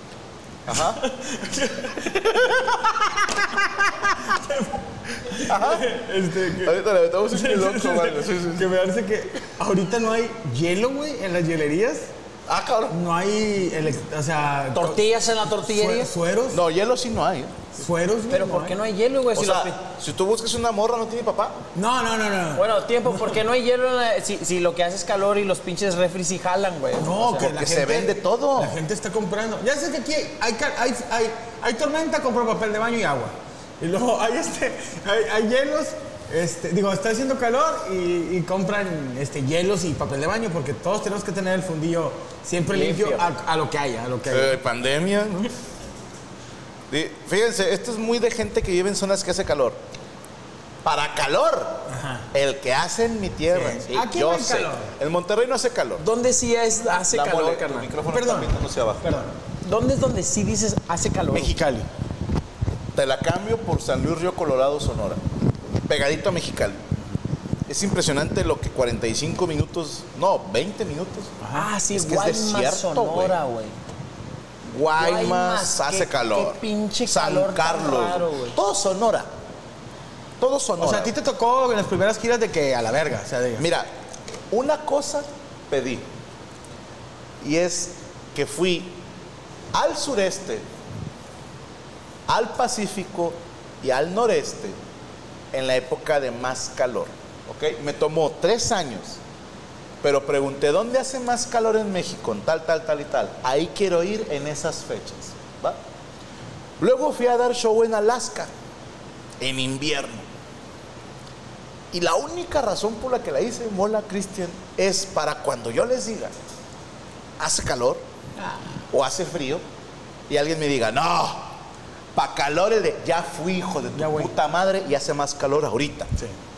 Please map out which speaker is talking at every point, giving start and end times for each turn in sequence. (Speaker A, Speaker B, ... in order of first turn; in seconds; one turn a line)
Speaker A: 0.7-1.0
Speaker B: 0.7-12.1
Speaker A: 5.4-5.9
Speaker A: 6.5-8.7
Speaker A: 12.5-13.0
Speaker B: 12.9-15.0
Speaker C: 14.7-16.1
Speaker B: 15.6-16.6
Speaker A: 16.5-17.5
Speaker B: 17.8-18.8
Speaker C: 18.3-19.8
Speaker A: 19.4-21.6
Speaker B: 21.8-23.4
Speaker C: 22.6-27.5
Speaker B: 27.0-44.6
Speaker A: 27.4-28.8
Speaker C: 42.7-43.3
Speaker A: 44.3-45.5
Speaker A: 46.9-49.8
Speaker A: 50.8-56.0
Speaker B: 51.9-52.3
Speaker B: 53.5-54.9
Speaker C: 56.0-57.9
Speaker A: 57.1-59.3
Speaker B: 58.1-59.3
Speaker C: 59.6-61.6
Speaker B: 61.3-61.9
Speaker A: 63.0-65.2
Speaker A: 65.9-66.8
Speaker A: 67.7-71.4
Speaker B: 71.4-71.7
Speaker C: 71.5-73.8
Speaker A: 71.9-73.4
Speaker A: 74.6-79.3
Speaker C: 75.0-78.6
Speaker A: 80.4-81.1
Speaker B: 80.8-83.7
Speaker A: 83.6-83.9
Speaker A: 84.5-86.1
Speaker A: 87.4-89.0
Speaker A: 89.7-90.7
Speaker A: 92.3-94.8
Speaker A: 95.5-99.2
Speaker A: 100.0-105.8
Speaker A: 106.8-108.5
Speaker A: 109.4-110.3
Speaker A: 111.9-116.3
Speaker A: 117.4-118.0
Speaker B: 118.4-118.7
Speaker A: 118.9-119.6
Speaker A: 120.3-121.5
Speaker A: 122.2-126.1
Speaker B: 124.0-124.3